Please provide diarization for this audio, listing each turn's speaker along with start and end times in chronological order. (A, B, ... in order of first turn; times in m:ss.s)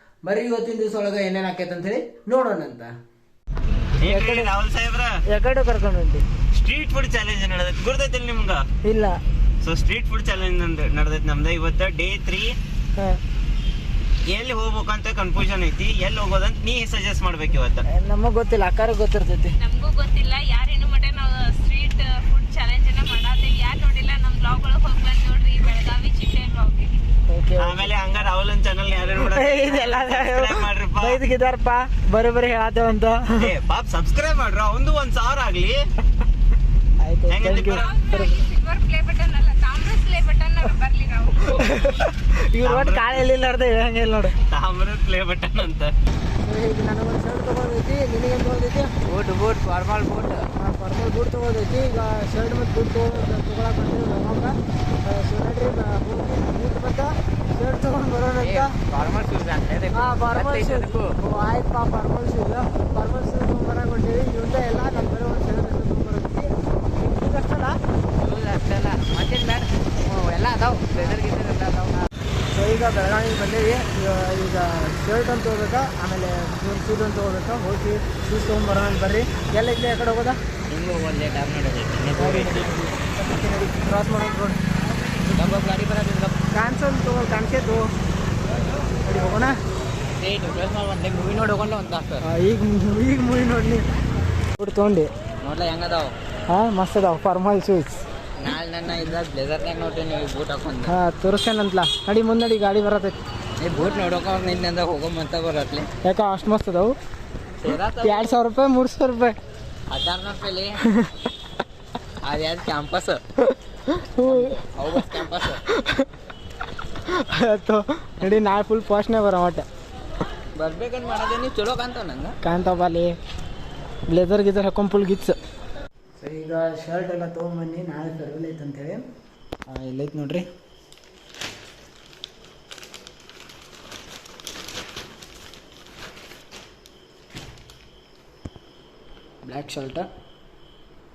0:00.2-0:02.9 A
0:04.0-0:05.1 B
0:04.0-0:04.5 A
0:05.2-0:06.2 A
0:06.5-0:08.6 B
0:08.8-0:09.2 A
0:09.6-0:12.5 B
0:14.3-0:17.8 B
0:17.9-0:19.6 A
0:19.6-0:27.0 C
0:27.3-0:27.9 A
0:27.6-0:31.2 B
0:29.2-0:33.5 A
0:33.4-0:35.8 B
0:37.0-0:38.4 A
0:37.3-0:38.0 B
0:37.6-0:41.9 C
0:41.4-0:44.3 A
0:42.6-0:43.2 B
0:44.5-0:45.9 B
0:46.4-0:48.9 A
0:49.0-0:50.5 D
0:50.6-0:58.7 A
0:58.4-1:01.1 D
0:59.9-1:07.8 A
1:08.2-1:12.0 D
1:12.5-1:20.4 A
1:20.7-1:22.8 D
1:22.2-1:24.6 A
1:25.0-1:26.3 D
1:26.5-1:27.9 A
1:29.0-1:29.6 A
1:30.2-1:32.2 D
1:32.2-1:33.8 A
1:34.6-1:35.1 A
1:35.4-1:36.2 D
1:36.5-1:38.0 A
1:38.4-1:40.9 D
1:40.8-1:43.2 A
1:43.6-1:45.9 D
1:46.0-1:46.9 A
1:47.6-1:48.4 D
1:48.0-1:49.3 A
1:49.9-1:50.8 D
1:52.2-1:53.2 D
1:53.9-1:55.1 A
1:54.2-1:55.6 D
1:55.6-1:56.1 A
1:57.1-1:59.6 A
2:00.5-2:02.3 D
2:02.4-2:03.1 A
2:04.1-2:05.4 A
2:06.2-2:09.0 A
2:09.7-2:10.5 A
2:19.4-2:20.1 A